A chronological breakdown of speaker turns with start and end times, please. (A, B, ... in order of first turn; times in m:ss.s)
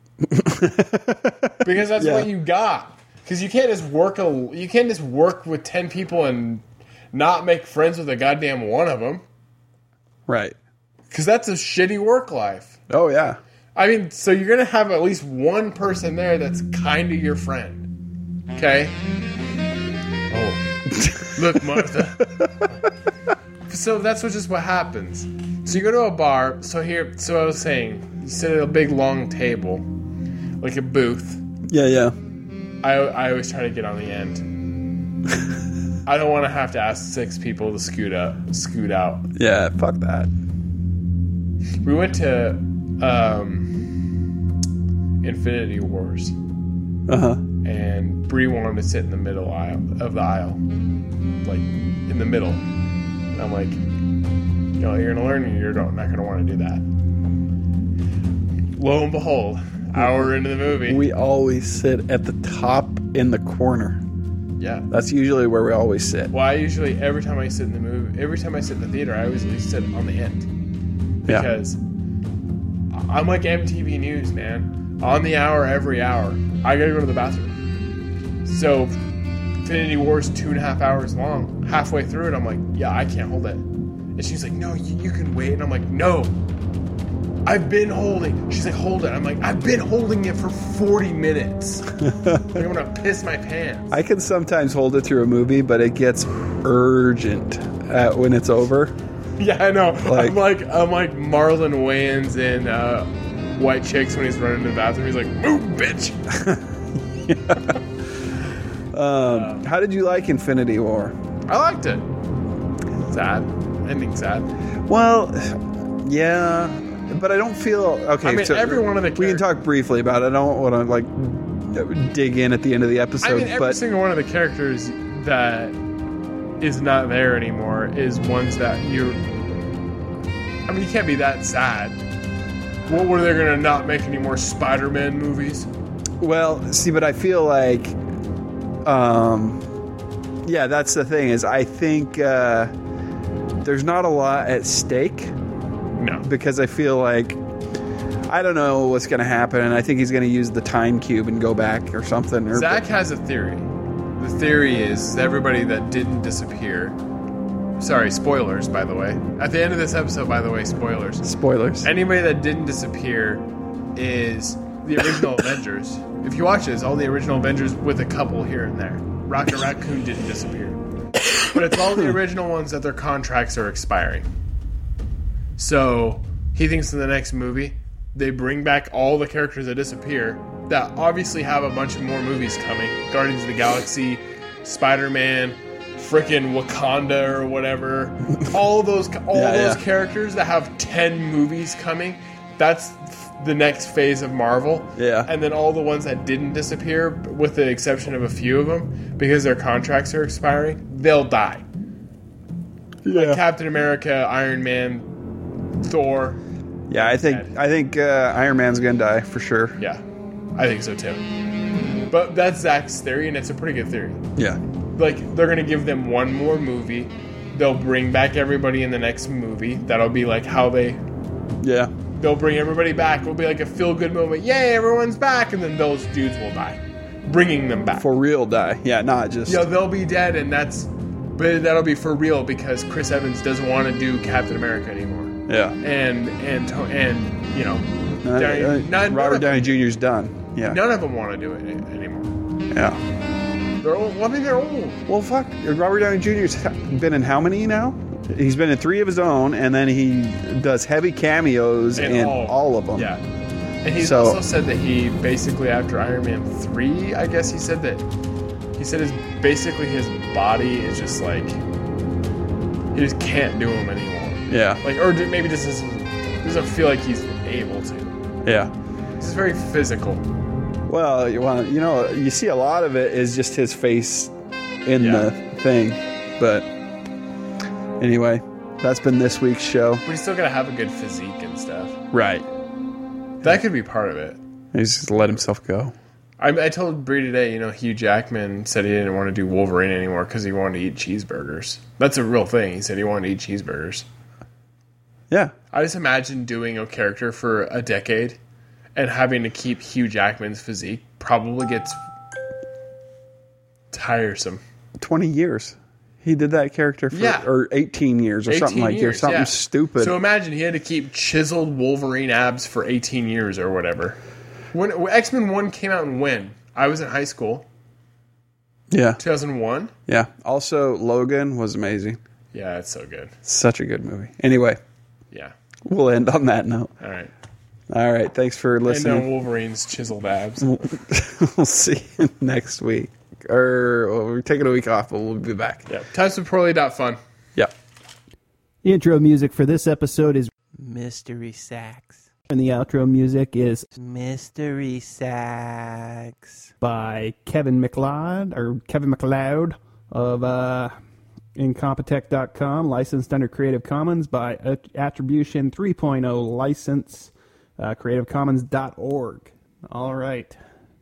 0:00.2-0:02.3 A
0:01.6-0:09.2 B
0:10.3-0:10.6 A
0:11.1-0:12.8 B
0:12.9-0:13.4 A
0:13.8-0:17.9 B
0:18.6-0:19.0 B
0:20.3-0:20.6 B
0:20.9-0:22.6 A
0:21.2-0:22.3 B
0:23.7-0:29.9 B
0:30.6-0:31.4 B
0:31.7-0:32.2 A
0:32.8-0:34.5 B
0:36.0-0:39.2 B
0:39.4-0:40.3 A
0:41.8-0:43.9 B
0:45.2-0:46.4 B
0:47.1-0:47.4 A
0:47.6-0:50.6 B
0:51.4-0:52.6 B
0:53.3-0:53.8 B
0:54.8-0:56.8 B
0:58.8-1:01.0 B
1:00.0-1:04.0 A
1:04.6-1:04.9 B
1:04.9-1:06.3 A
1:06.3-1:10.5 B
1:11.3-1:11.8 B
1:12.9-1:17.6 B
1:18.4-1:19.0 B
1:19.6-1:23.6 B
1:24.2-1:26.3 B
1:27.5-1:34.0 B
1:32.0-1:32.6 A
1:33.9-1:38.9 A
1:39.4-1:46.2 B
1:40.1-1:40.4 A
1:46.3-1:46.6 A
1:47.2-1:47.8 A
1:48.9-1:51.2 A
1:49.2-1:49.6 B
1:51.5-1:52.1 B
1:53.0-1:54.5 B
1:54.9-2:03.8 A
1:58.2-1:59.4 B
2:03.2-2:05.8 B
2:06.6-2:09.2 B
2:10.7-2:12.0 B
2:12.9-2:15.7 B
2:16.2-2:18.0 A
2:18.8-2:19.7 A
2:20.4-2:22.7 A
2:23.6-2:25.3 A
2:26.0-2:26.3 B
2:26.2-2:27.4 A
2:28.3-2:32.8 A
2:32.5-2:37.0 B
2:37.8-2:41.3 B
2:41.2-2:41.9 A
2:41.8-2:50.8 B
2:51.5-2:54.3 B
2:55.6-3:21.6 B
3:09.3-3:09.8 A
3:15.0-3:15.3 A
3:23.0-3:23.4 A
3:23.1-3:25.1 B
3:25.8-3:26.4 B
3:26.9-3:29.8 A
3:26.9-3:27.5 B
3:30.6-3:31.2 B
3:32.1-3:34.2 B
3:35.0-3:41.0 B
3:41.6-3:41.9 A
3:42.1-3:48.1 B
3:48.0-3:49.6 A
3:49.5-3:59.7 B
3:55.5-3:55.8 A
3:58.2-4:00.8 A
4:00.6-4:02.3 B
4:02.7-4:03.0 A
4:03.8-4:05.0 B
4:05.1-4:13.1 A
4:12.0-4:13.2 B
4:13.8-4:18.0 B
4:14.0-4:14.4 A
4:18.8-4:21.6 B
4:22.9-4:28.1 B
4:24.5-4:24.8 A
4:28.4-4:28.7 A
4:29.2-4:30.2 B
4:30.9-4:34.3 A
4:34.8-4:36.7 A
4:35.0-4:35.3 B
4:38.0-4:40.0 A
4:40.0-4:42.0 B
4:42.1-4:42.4 A
4:43.4-4:44.4 B
4:44.7-4:46.0 A
4:46.4-4:54.1 B
4:55.7-4:58.4 B
4:59.0-5:02.0 B
5:03.9-5:04.6 B
5:05.0-5:10.2 A
5:07.1-5:07.5 B
5:08.5-5:14.2 B
5:14.7-5:17.7 B
5:18.9-5:19.2 A
5:19.2-5:19.9 B
5:20.1-5:22.2 A
5:22.5-5:23.4 B
5:23.5-5:24.8 A
5:25.8-5:26.9 A
5:27.0-5:27.3 B
5:27.9-5:29.3 A
5:28.9-5:30.8 B
5:30.6-5:35.9 A
5:35.9-5:37.2 B
5:38.8-5:50.9 C
5:51.6-6:00.5 C